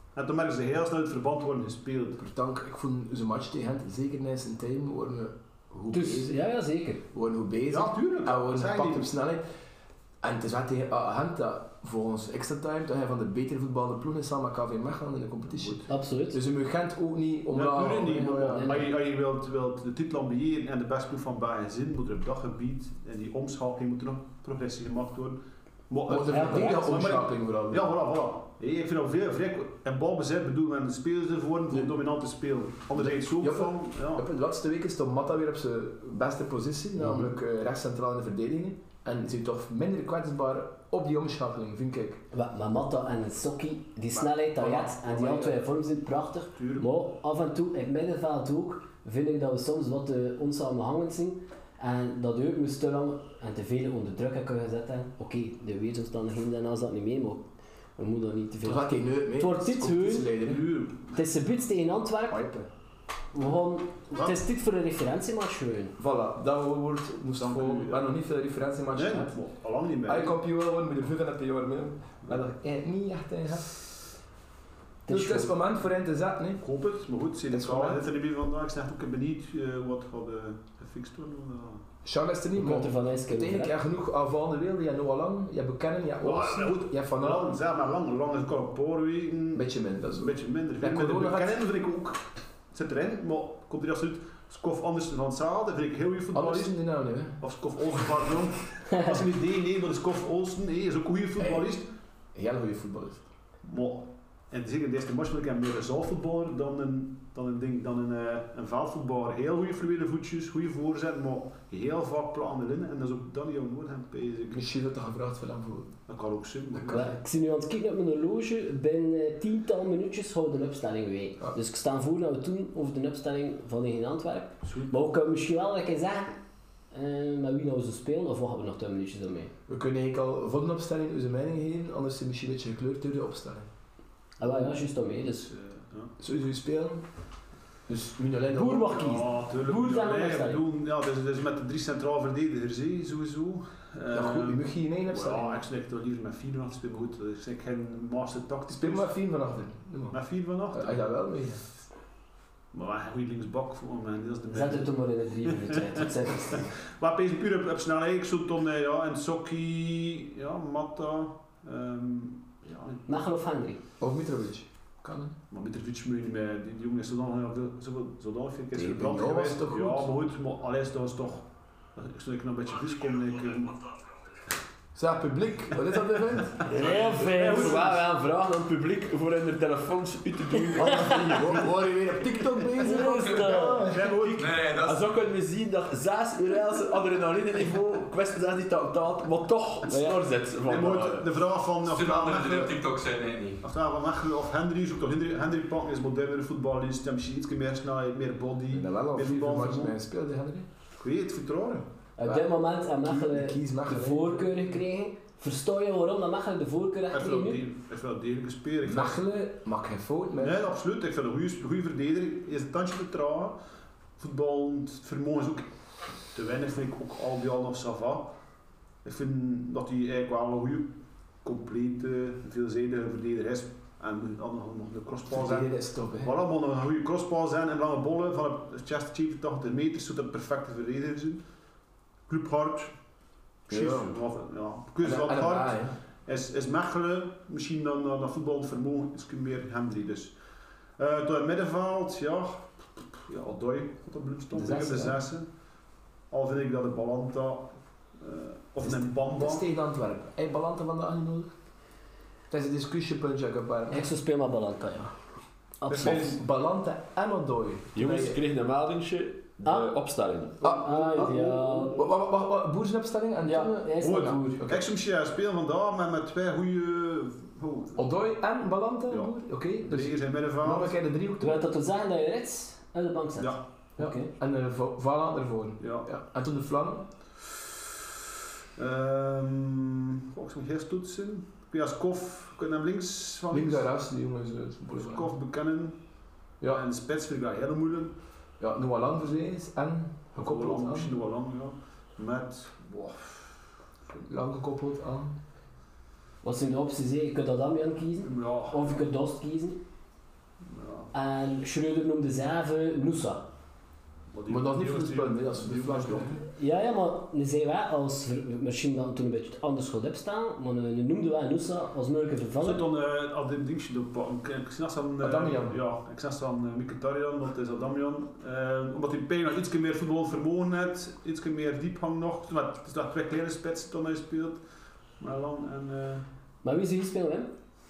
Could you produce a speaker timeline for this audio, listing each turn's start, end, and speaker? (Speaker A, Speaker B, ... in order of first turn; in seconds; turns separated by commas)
Speaker A: 0.1-2.2, Speaker B: 2.2-6.3, Speaker C: 5.9-7.0, Speaker B: 7.1-9.4, Speaker A: 7.7-9.1, Speaker B: 10.2-18.9, Speaker C: 15.9-16.4, Speaker A: 17.5-34.2, Speaker C: 18.4-18.9, Speaker B: 26.1-27.9, Speaker C: 26.3-27.1, Speaker B: 31.7-32.0, Speaker B: 32.9-42.2, Speaker C: 37.0-37.3, Speaker C: 42.3-60.4, Speaker B: 44.6-45.5, Speaker A: 44.7-45.5, Speaker A: 46.5-46.9, Speaker B: 58.6-60.7, Speaker A: 60.4-61.1, Speaker C: 61.1-62.5, Speaker B: 62.3-62.7, Speaker C: 63.3-66.0, Speaker B: 66.0-69.4, Speaker A: 67.4-68.0, Speaker A: 68.9-70.4, Speaker B: 70.0-73.8, Speaker C: 75.0-75.6, Speaker B: 75.1-76.6, Speaker A: 76.6-81.8, Speaker B: 77.5-78.0, Speaker B: 82.0-87.5, Speaker C: 82.5-83.8, Speaker A: 86.2-96.7, Speaker B: 89.5-91.7, Speaker B: 96.3-97.4, Speaker A: 97.4-101.9, Speaker B: 101.4-101.7, Speaker B: 102.3-103.2, Speaker A: 103.6-114.6, Speaker B: 114.5-116.0, Speaker A: 116.1-117.2, Speaker B: 116.7-117.1, Speaker C: 116.9-126.4, Speaker A: 124.6-125.0, Speaker C: 126.9-129.5, Speaker B: 129.7-133.7, Speaker C: 134.4-135.5, Speaker A: 135.4-136.1, Speaker B: 136.2-137.1, Speaker B: 137.9-139.3, Speaker C: 138.5-140.6, Speaker A: 138.9-149.1, Speaker B: 144.1-145.6, Speaker B: 148.7-150.2, Speaker A: 150.1-151.1, Speaker B: 150.7-151.6, Speaker A: 152.7-154.9, Speaker C: 154.5-156.7, Speaker A: 155.4-163.0, Speaker C: 163.1-163.8, Speaker B: 164.0-165.3, Speaker A: 165.5-173.8, Speaker B: 168.7-170.1, Speaker B: 174.9-176.6, Speaker A: 176.6-178.0, Speaker D: 176.7-181.7, Speaker E: 176.7-177.3, Speaker C: 176.7-177.8, Speaker B: 180.7-184.4, Speaker C: 180.8-181.1, Speaker A: 181.4-182.1, Speaker C: 182.8-183.9, Speaker A: 183.7-184.7, Speaker E: 184.3-185.1, Speaker D: 184.7-191.3, Speaker C: 189.9-190.2, Speaker A: 190.6-192.8, Speaker E: 191.8-193.6, Speaker A: 193.6-199.9, Speaker B: 198.7-200.7, Speaker A: 201.0-201.9, Speaker C: 202.2-207.6, Speaker B: 202.2-204.4, Speaker A: 207.1-209.2, Speaker B: 208.8-210.7, Speaker A: 210.4-213.6, Speaker A: 214.2-215.7, Speaker A: 216.3-218.3, Speaker A: 219.0-231.4, Speaker B: 225.3-226.3, Speaker A: 232.3-232.9, Speaker A: 233.7-240.3, Speaker B: 233.7-234.2, Speaker B: 235.0-236.0, Speaker A: 241.0-245.5, Speaker B: 244.5-245.2, Speaker A: 246.3-249.6, Speaker B: 248.8-251.5, Speaker B: 252.5-254.1, Speaker C: 253.9-255.1, Speaker C: 255.8-256.3, Speaker A: 255.9-256.4, Speaker B: 255.9-258.4, Speaker D: 257.9-260.6, Speaker C: 259.6-259.9, Speaker C: 260.6-261.9, Speaker B: 260.6-264.9, Speaker C: 263.4-264.6, Speaker A: 264.2-268.0, Speaker B: 267.9-271.6, Speaker A: 269.1-270.9, Speaker C: 271.4-274.3, Speaker B: 274.0-277.1, Speaker A: 275.8-276.1, Speaker A: 278.8-283.9, Speaker B: 283.5-285.3, Speaker A: 284.9-286.0, Speaker A: 286.6-288.1, Speaker B: 288.6-291.2, Speaker A: 290.3-293.6, Speaker B: 294.2-295.4, Speaker C: 296.4-299.8, Speaker A: 298.2-299.0, Speaker A: 300.6-301.1, Speaker C: 301.1-303.4, Speaker A: 304.3-306.4, Speaker B: 304.5-306.4, Speaker C: 306.6-312.8, Speaker A: 312.6-324.6, Speaker B: 315.2-315.8, Speaker A: 325.2-326.2, Speaker C: 326.6-327.5